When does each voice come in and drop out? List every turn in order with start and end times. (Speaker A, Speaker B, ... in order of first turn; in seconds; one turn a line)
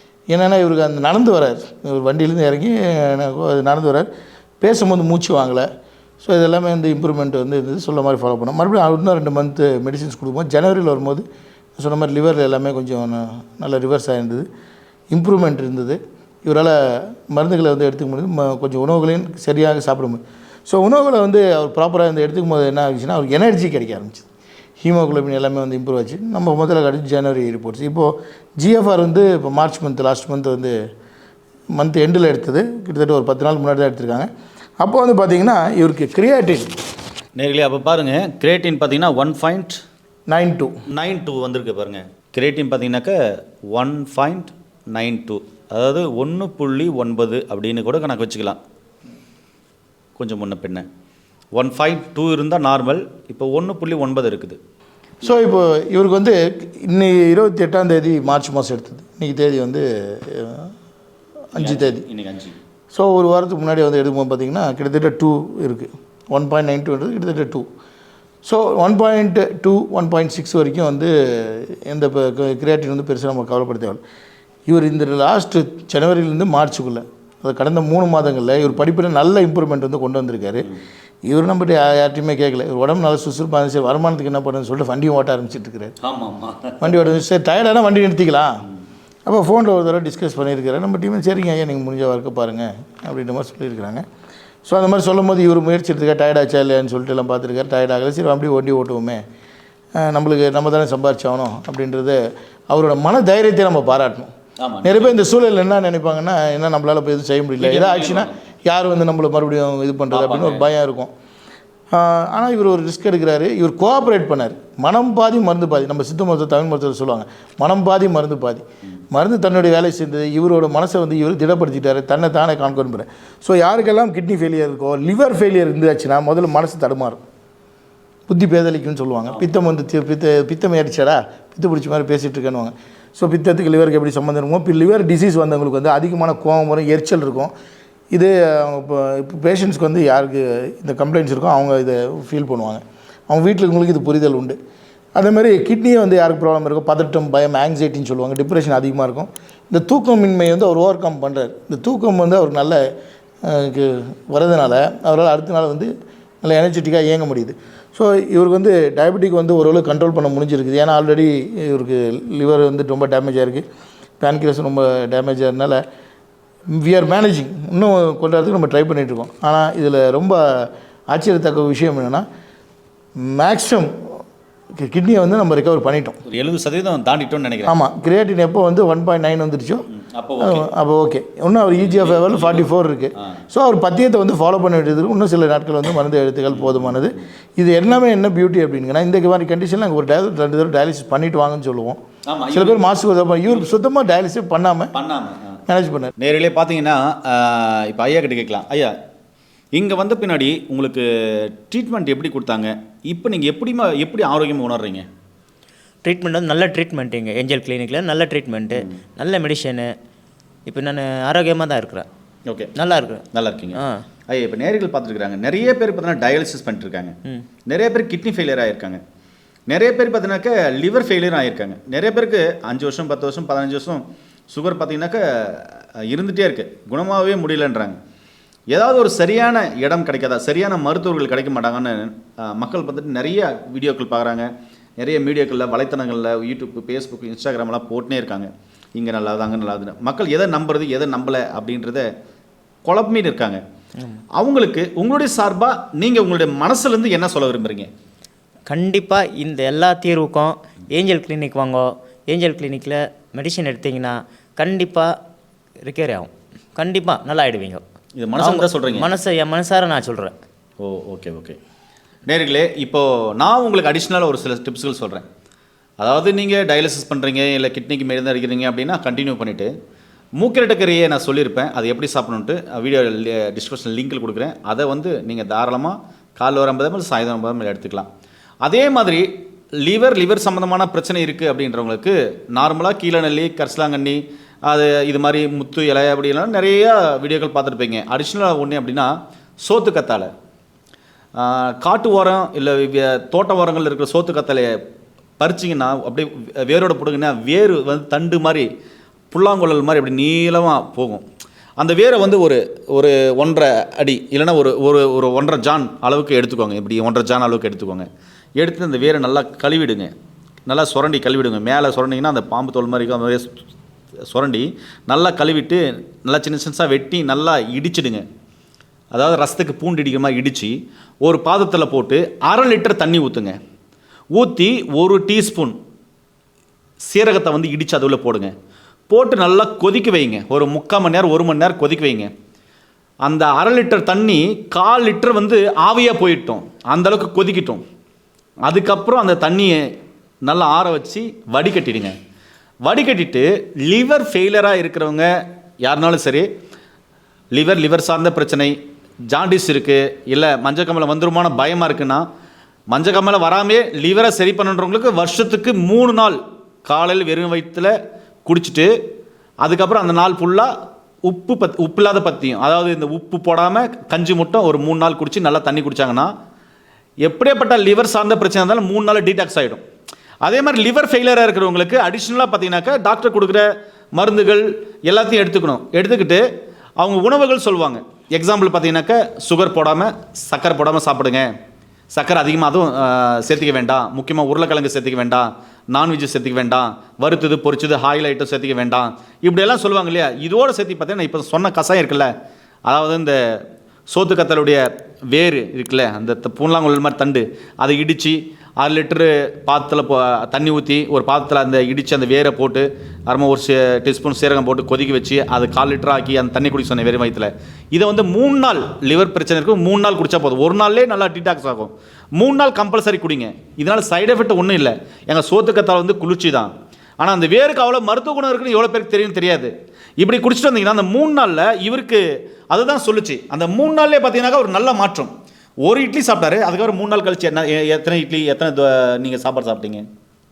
Speaker A: 0.3-4.1
Speaker A: 4.6-5.7
Speaker A: 6.2-11.2
Speaker A: 11.8-14.5
Speaker A: 15.1-24.3
Speaker A: 24.8-30.8
Speaker A: 31.7-34.3
Speaker A: 34.8-36.8
Speaker B: 37.4-39.8
Speaker A: 40.3-40.8
Speaker B: 40.9-48.6
Speaker B: 50.2-50.9
Speaker B: 51.5-54.6
Speaker A: 55.2-60.7
Speaker A: 61.5-62.0
Speaker B: 61.6-62.6
Speaker A: 62.9-67.7
Speaker A: 68.4-74.0
Speaker A: 74.7-80.7
Speaker A: 81.3-86.0
Speaker B: 86.0-86.9
Speaker A: 86.8-88.6
Speaker A: 89.3-94.0
Speaker A: 94.7-99.2
Speaker A: 100.0-104.3
Speaker B: 104.6-105.2
Speaker A: 104.8-111.1
Speaker B: 107.6-108.4
Speaker B: 110.1-110.7
Speaker A: 111.9-127.2
Speaker A: 128.3-137.5
Speaker A: 138.1-144.6
Speaker A: 145.2-152.9
Speaker A: 153.4-155.9
Speaker A: 156.4-163.6
Speaker A: 164.2-165.8
Speaker A: 166.7-172.2
Speaker A: 173.2-174.2
Speaker A: 174.7-176.2
Speaker B: 176.3-177.7
Speaker A: 177.7-179.8
Speaker B: 179.9-180.7
Speaker A: 180.4-192.0
Speaker B: 181.8-182.7
Speaker B: 186.5-187.2
Speaker B: 192.3-192.8
Speaker A: 192.5-194.9
Speaker B: 194.9-195.6
Speaker A: 195.7-196.1
Speaker B: 196.2-198.9
Speaker B: 199.8-205.1
Speaker C: 206.0-209.9
Speaker C: 210.7-212.1
Speaker B: 212.5-212.7
Speaker C: 212.8-214.0
Speaker B: 213.3-219.0
Speaker B: 219.7-228.0
Speaker B: 228.7-242.1
Speaker B: 242.8-243.6
Speaker B: 244.4-247.9
Speaker C: 248.7-255.1
Speaker C: 255.8-257.8
Speaker B: 258.2-259.1
Speaker C: 258.4-260.4
Speaker B: 260.8-261.6
Speaker B: 262.3-265.2
Speaker B: 266.0-269.7
Speaker B: 270.4-278.1
Speaker B: 278.6-290.3
Speaker B: 291.4-294.8
Speaker B: 295.4-298.7
Speaker B: 299.3-301.2
Speaker B: 301.8-310.1
Speaker B: 310.7-313.6
Speaker B: 314.3-318.2
Speaker B: 319.1-323.6
Speaker B: 324.4-325.8
Speaker B: 327.1-328.5
Speaker B: 329.1-332.3
Speaker B: 333.2-337.8
Speaker B: 338.6-339.9
Speaker B: 340.4-342.1
Speaker B: 342.9-346.5
Speaker B: 347.5-348.8
Speaker B: 349.3-352.3
Speaker B: 352.9-357.9
Speaker B: 358.4-358.9
Speaker B: 359.6-360.7
Speaker B: 361.3-366.3
Speaker B: 367.2-369.8
Speaker B: 370.4-376.4
Speaker B: 377.0-381.5
Speaker B: 382.1-392.3
Speaker B: 392.9-393.6
Speaker B: 394.1-425.3
Speaker B: 425.9-430.1